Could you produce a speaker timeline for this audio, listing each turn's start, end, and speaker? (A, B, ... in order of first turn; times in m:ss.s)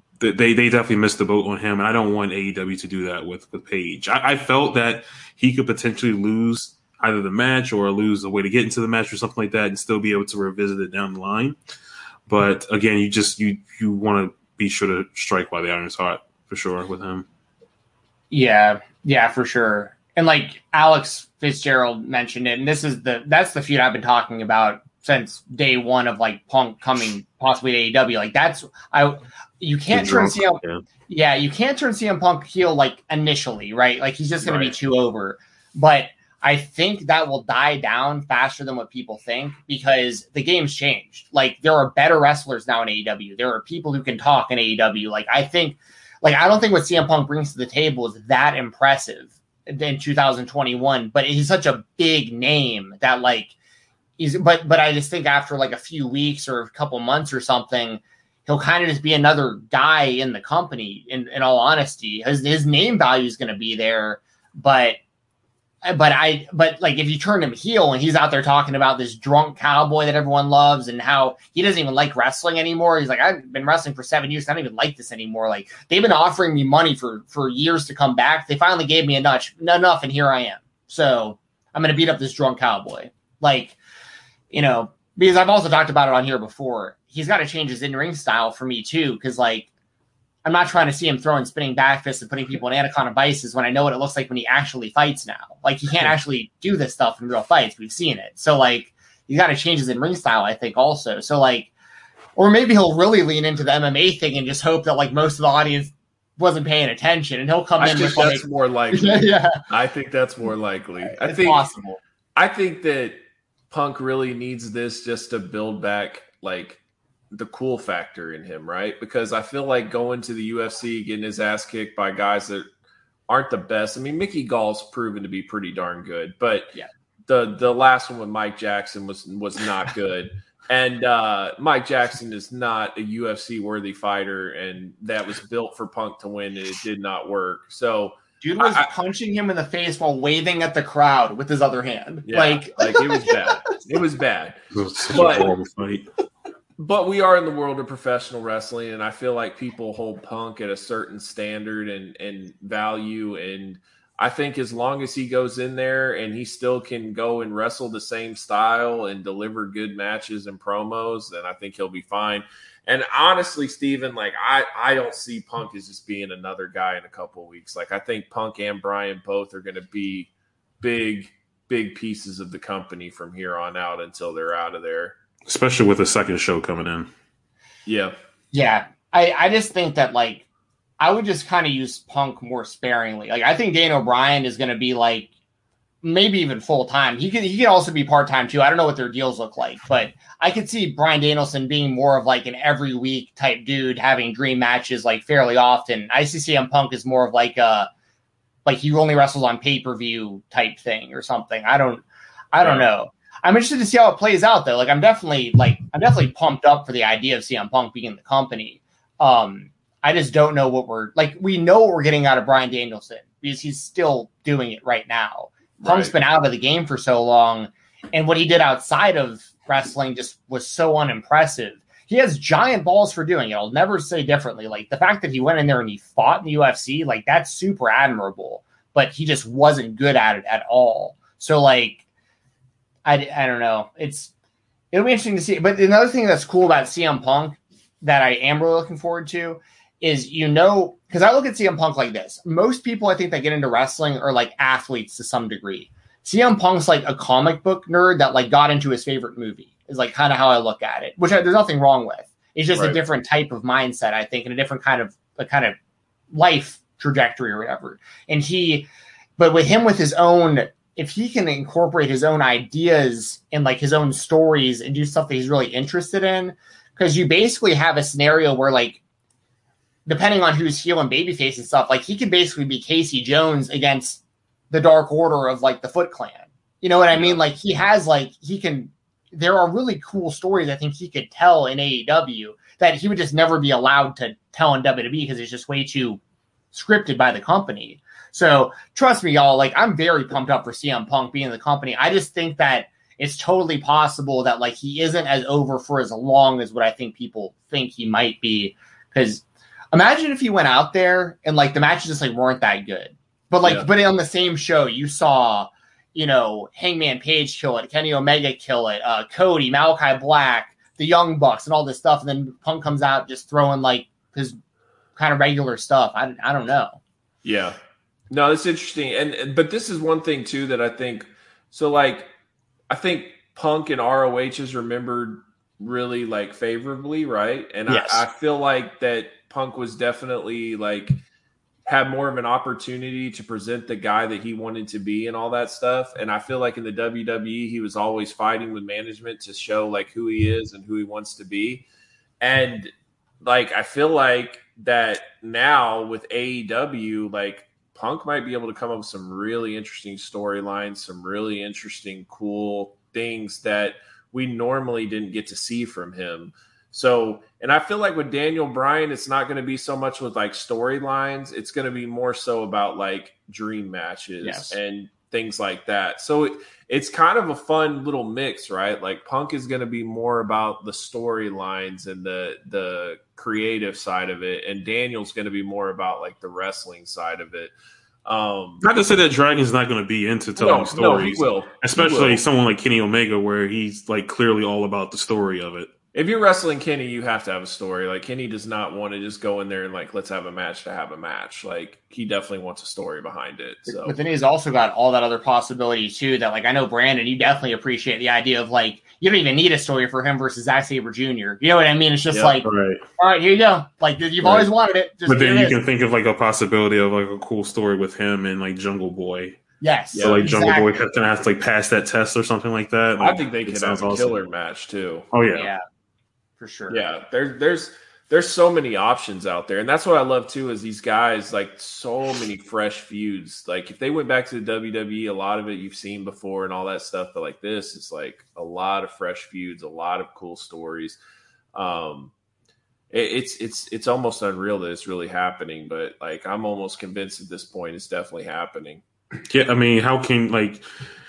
0:00.2-0:11.6 A
0:12.3-0:17.3 A
0:18.3-0:53.5 B
0:29.9-0:30.8 A
0:34.4-0:34.7 C
0:54.2-1:05.0 B
1:05.8-1:23.8 B
1:24.5-1:29.7 B
1:30.4-1:41.7 B
1:42.4-1:49.6 B
1:47.8-1:51.6 C
1:51.1-1:52.0 B
1:52.4-1:53.2 C
1:53.7-1:56.8 C
1:57.3-2:02.7 C
2:03.3-2:06.7 C
2:07.3-2:18.9 C
2:18.4-2:23.4 B
2:22.3-2:24.6 C
2:24.7-2:26.1 A
2:25.1-2:25.5 C
2:26.8-2:55.2 C
2:55.5-2:57.1 A
2:57.9-2:58.2 C
2:58.5-3:00.5 B
3:01.0-3:05.3 B
3:06.0-3:17.9 B
3:18.6-3:52.0 B
3:22.6-3:22.9 C
3:35.8-3:36.1 C
3:53.1-3:54.3 B
3:54.9-4:15.8 B
4:12.7-4:13.0 C
4:16.3-4:18.9 B
4:19.4-4:29.0 B
4:30.1-4:46.2 B
4:37.1-4:37.4 C
4:46.7-5:14.6 B
5:15.2-5:17.0 B
5:17.4-5:17.8 C
5:18.3-5:22.3 C
5:22.9-5:31.2 C
5:27.9-5:28.2 B
5:31.9-5:41.8 C
5:42.4-5:42.9 C
5:43.4-6:17.7 C
6:04.4-6:04.8 B
6:18.3-6:18.8 C
6:18.8-6:25.9 A
6:20.6-6:22.4 C
6:26.1-6:34.2 C
6:33.9-6:45.8 B
6:42.3-6:42.6 C
6:42.6-6:43.0 A
6:45.3-6:49.6 A
6:49.8-6:50.9 B
6:50.2-6:50.5 C
6:50.2-6:54.4 A
6:53.2-6:55.3 C
6:55.3-6:55.7 A
6:55.6-6:55.8 B
6:56.6-6:57.1 B
6:56.9-7:11.2 C
7:11.8-7:12.3 C
7:13.1-7:19.0 C
7:19.5-7:20.8 A